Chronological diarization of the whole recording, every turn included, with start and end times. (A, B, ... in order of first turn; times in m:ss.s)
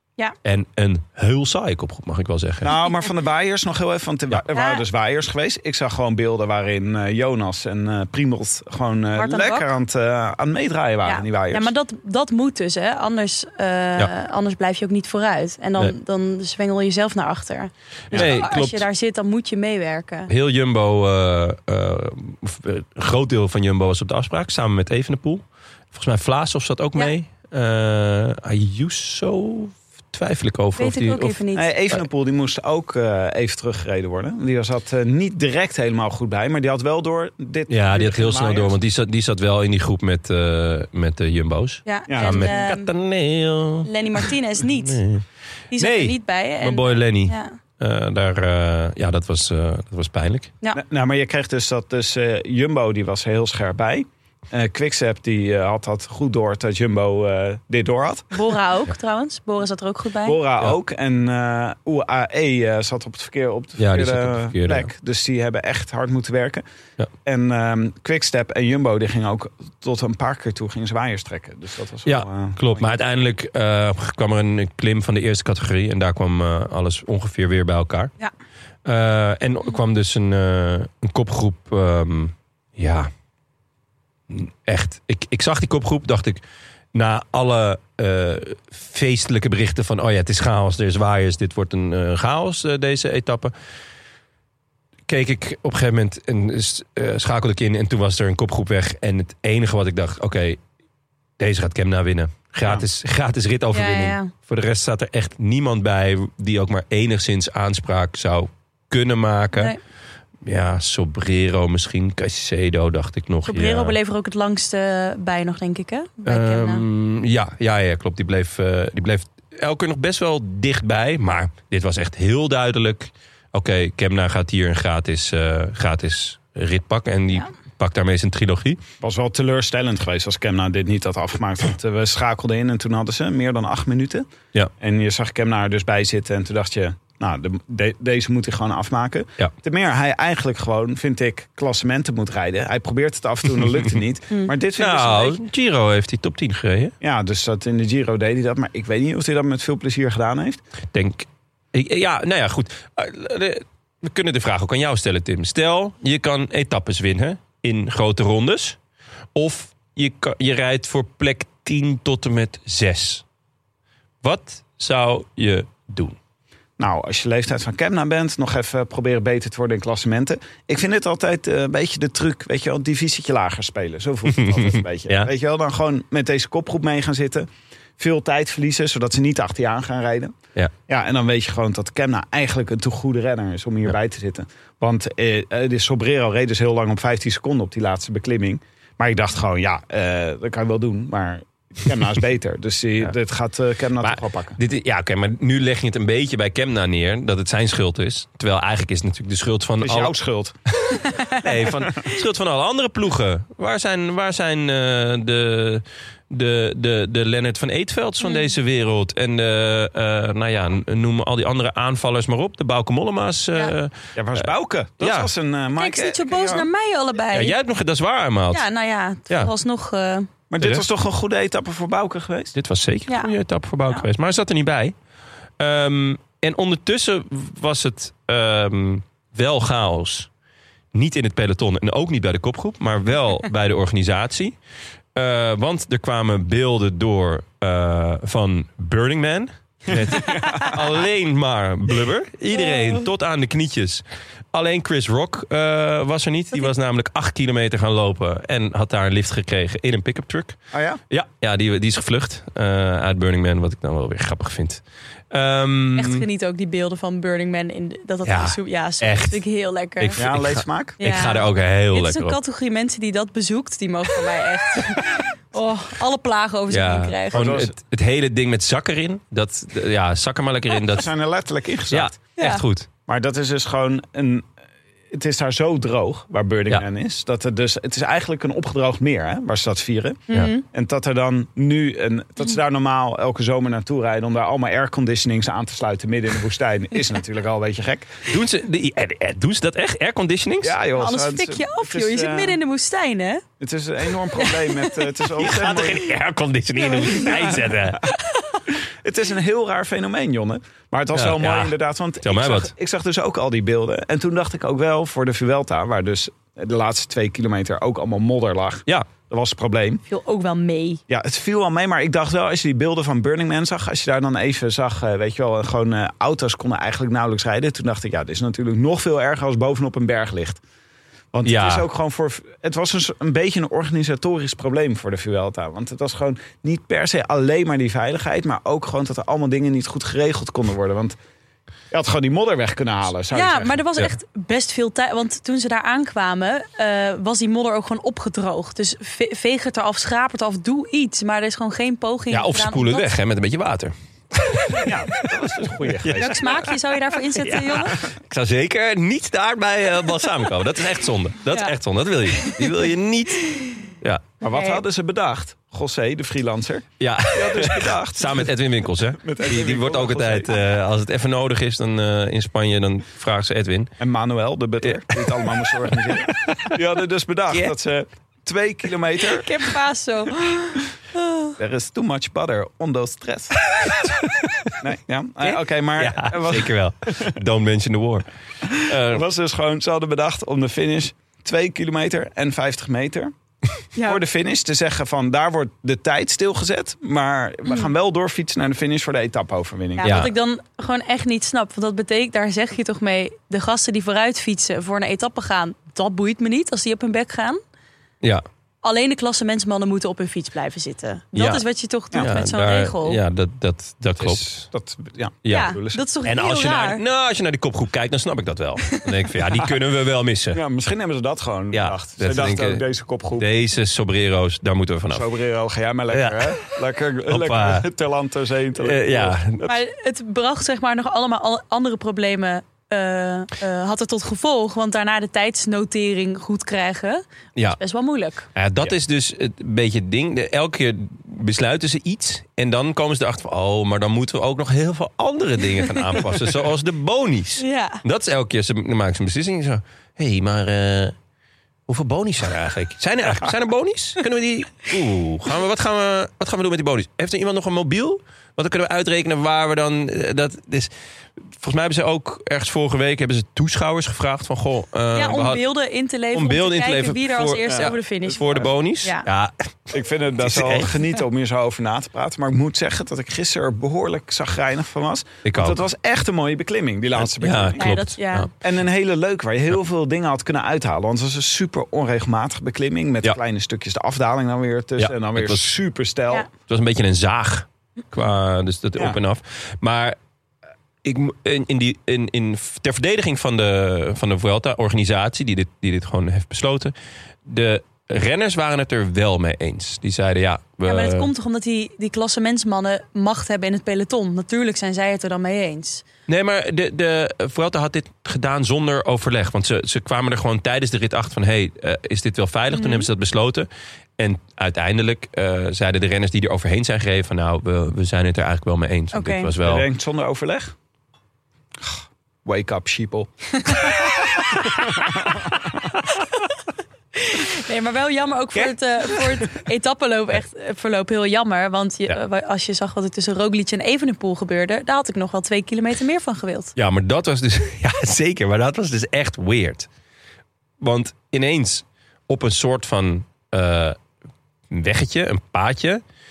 0:00.4-0:02.7 A
0:02.6-0:11.7 B
0:04.5-0:04.8 C
0:09.2-0:09.7 C
0:11.0-0:20.3 C
0:18.1-0:18.9 A
0:20.3-0:31.4 A
0:30.8-0:31.8 C
0:31.5-0:38.8 B
0:37.7-0:45.2 A
0:41.9-0:42.9 C
0:42.1-0:42.6 B
0:43.8-0:45.0 C
0:45.7-0:47.6 C
0:45.8-0:50.5 A
0:50.7-0:58.3 B
0:58.3-1:00.4 C
1:00.2-1:06.6 B
1:03.8-1:04.9 A
1:07.2-1:12.8 B
1:12.0-1:18.1 A
1:18.8-1:23.1 A
1:24.3-1:26.4 A
1:26.9-1:33.5 A
1:35.1-1:40.6 A
1:41.4-1:49.7 A
1:43.7-1:44.3 C
1:49.5-1:49.8 C
1:50.4-1:54.0 A
1:53.4-1:56.8 C
1:56.3-2:08.8 A
2:09.0-2:14.3 B
2:14.8-2:25.4 B
2:24.8-2:26.9 A
2:27.0-2:30.6 B
2:30.9-2:38.8 A
2:39.3-2:43.2 A
2:44.2-2:46.2 A
2:46.8-3:00.4 B
2:54.3-2:55.3 A
3:00.9-3:14.6 B
3:14.0-3:20.1 A
3:19.8-3:20.6 B
3:20.7-3:34.5 A
3:28.2-3:28.5 C
3:34.1-3:36.7 B
3:35.0-3:35.3 A
3:35.8-3:37.5 C
3:37.3-3:38.6 A
3:38.5-3:40.3 C
3:40.5-3:42.5 B
3:40.6-3:40.9 A
3:42.5-3:44.9 A
3:45.6-3:50.3 A
3:50.9-3:54.6 A
3:55.1-4:16.2 A
4:00.4-4:00.7 B
4:02.6-4:03.0 C
4:10.7-4:11.0 B
4:16.0-4:20.3 C
4:18.2-4:19.4 A
4:20.0-4:22.4 A
4:20.2-4:21.0 B
4:21.0-4:27.5 C
4:26.7-4:31.1 A
4:27.3-4:27.7 B
4:30.9-4:32.1 B
4:31.9-4:32.9 A
4:32.4-4:32.6 C
4:33.1-4:34.5 B
4:35.1-4:48.2 B
4:40.3-4:40.6 C
4:48.3-4:50.8 A
4:50.6-4:52.6 B
4:50.9-4:53.4 C
4:53.6-4:56.0 B
4:54.4-4:54.8 C
4:55.4-4:58.0 A
4:56.9-4:57.4 C
4:57.2-4:57.6 B
4:58.3-4:58.6 C
4:58.7-5:10.0 B
5:01.1-5:02.7 A
5:10.1-5:11.0 C
5:11.1-5:20.6 B
5:21.3-5:31.2 B
5:21.4-5:21.9 A
5:31.9-5:33.8 B
5:33.3-5:43.1 C
5:42.3-5:45.4 A
5:44.8-5:46.6 B
5:46.0-5:46.7 A
5:46.2-5:48.0 C
5:47.4-5:54.2 A
5:53.5-5:53.8 C
5:54.4-5:58.5 B
5:54.5-5:54.8 C
5:57.0-6:03.9 A
5:59.2-6:00.6 B
6:04.0-6:09.5 B
6:04.8-6:06.7 A
6:09.4-6:11.5 C
6:11.6-6:13.7 B
6:13.7-6:14.7 A
6:14.8-6:17.3 B
6:15.4-6:19.2 A
6:18.6-6:23.3 B
6:24.0-6:24.2 C
6:24.0-6:30.2 B
6:30.0-6:37.6 C
6:30.0-6:30.3 A
6:38.8-6:43.2 C
6:41.4-6:44.7 A
6:44.2-6:46.0 B
6:45.4-6:50.6 A
6:45.5-6:47.0 C
6:50.5-6:53.5 B
6:51.7-6:52.8 A
6:53.4-6:55.3 A
6:55.1-6:59.4 B
6:56.1-6:57.9 A
6:58.8-6:59.8 A
6:59.6-7:07.2 C
7:07.7-7:08.5 C
7:08.5-7:21.2 A
7:17.6-7:18.0 C
7:21.9-7:30.9 A
7:31.5-7:35.6 A
7:35.1-7:39.2 C
7:36.3-7:40.9 A
7:37.7-7:38.7 B
7:39.9-7:47.9 B
7:45.4-7:45.8 A
7:47.2-7:48.5 A
7:47.8-7:48.5 C
7:48.6-7:56.5 B
7:55.0-7:55.7 A
7:56.7-8:00.2 A
8:01.0-8:06.9 A
8:07.4-8:11.3 A
8:10.8-8:16.0 C
8:16.3-8:29.9 A
8:22.7-8:23.1 C
8:29.1-8:29.5 C
8:29.6-8:30.7 B
8:31.8-8:33.3 B
8:33.6-8:34.3 C
8:34.9-8:35.4 B
8:37.2-8:46.7 C
8:46.8-8:49.9 A
8:50.8-8:54.0 A
8:54.7-8:56.0 A